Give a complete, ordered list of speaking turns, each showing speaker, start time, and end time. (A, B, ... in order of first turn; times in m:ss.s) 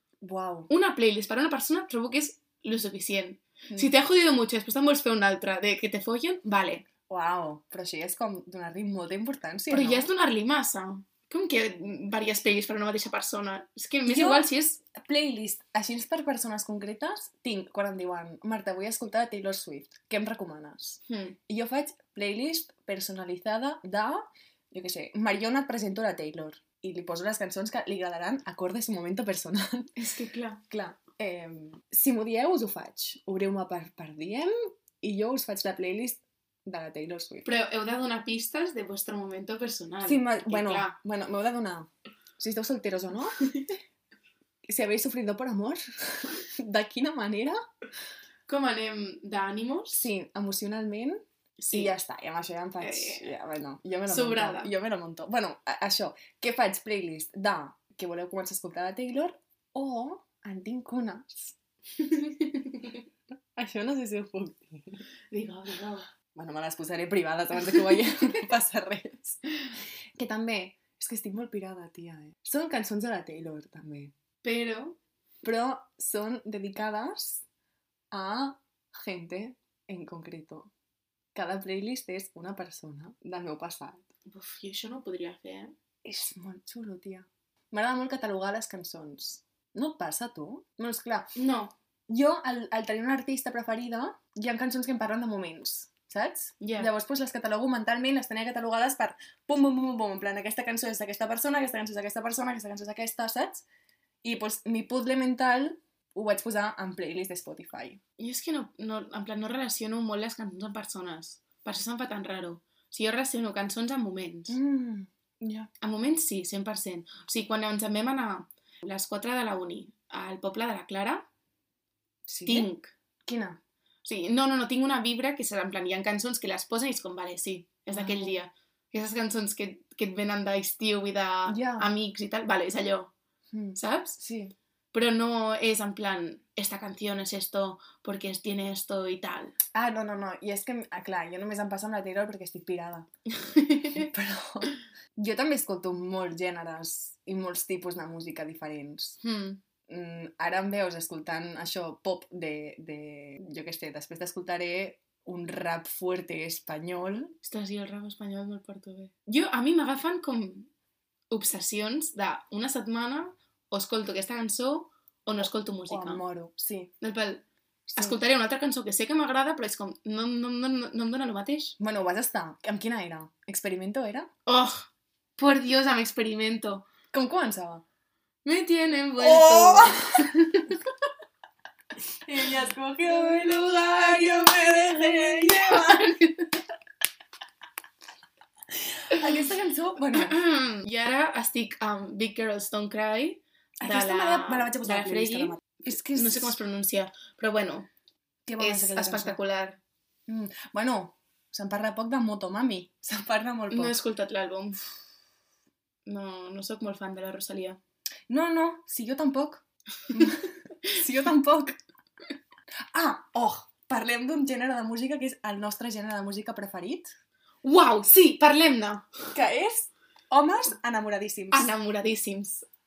0:00.2-0:00.7 A
0:00.7-0:06.8 B
0:07.1-0:10.1 A
0:09.7-0:14.8 B
0:14.1-0:29.9 A
0:21.1-0:21.4 B
0:30.0-0:30.6 B
0:30.7-0:37.5 A
0:37.4-0:41.0 B
0:40.0-0:43.4 A
0:44.7-0:47.6 A
0:48.5-0:50.1 B
0:49.9-1:01.6 A
0:51.6-0:51.9 B
0:52.8-0:53.3 B
0:54.1-0:54.7 B
1:02.0-1:03.0 B
1:03.6-1:05.0 A
1:05.3-1:06.1 B
1:06.4-1:09.4 A
1:10.2-1:14.1 A
1:14.4-1:15.0 B
1:15.4-1:17.4 A
1:18.1-1:20.7 A
1:21.4-1:24.1 A
1:24.3-1:25.7 B
1:26.0-1:31.3 A
1:31.4-1:31.8 B
1:32.1-1:43.6 A
1:36.6-1:36.9 B
1:44.2-1:48.0 A
1:48.2-1:54.6 B
1:54.5-1:55.7 A
1:55.8-2:01.3 B
2:02.3-2:02.7 A
2:02.4-2:02.9 B
2:03.3-2:03.6 A
2:04.0-2:13.1 B
2:07.9-2:08.4 A
2:11.5-2:11.9 A
2:13.5-2:14.5 A
2:13.8-2:14.2 B
2:14.9-2:19.6 B
2:19.7-2:23.1 A
2:23.3-2:24.1 B
2:23.9-2:29.2 A
2:29.2-2:29.6 B
2:29.9-2:37.4 A
2:37.4-2:40.7 B
2:41.3-2:46.2 B
2:45.4-2:46.9 A
2:47.0-2:51.8 B
2:47.9-2:48.2 A
2:51.8-2:54.3 A
2:54.5-2:56.9 B
2:57.1-2:57.8 A
2:58.4-3:00.8 B
2:59.2-3:00.3 A
3:02.2-3:06.1 A
3:03.5-3:06.6 B
3:08.9-3:10.4 A
3:10.1-3:17.9 B
3:13.8-3:16.6 A
3:18.5-3:19.4 A
3:18.6-3:19.8 B
3:20.3-3:24.0 A
3:23.7-3:24.8 B
3:26.1-3:27.8 B
3:28.3-3:31.8 A
3:32.9-3:37.1 A
3:37.6-3:39.1 B
3:39.3-3:41.7 A
3:41.5-3:42.7 B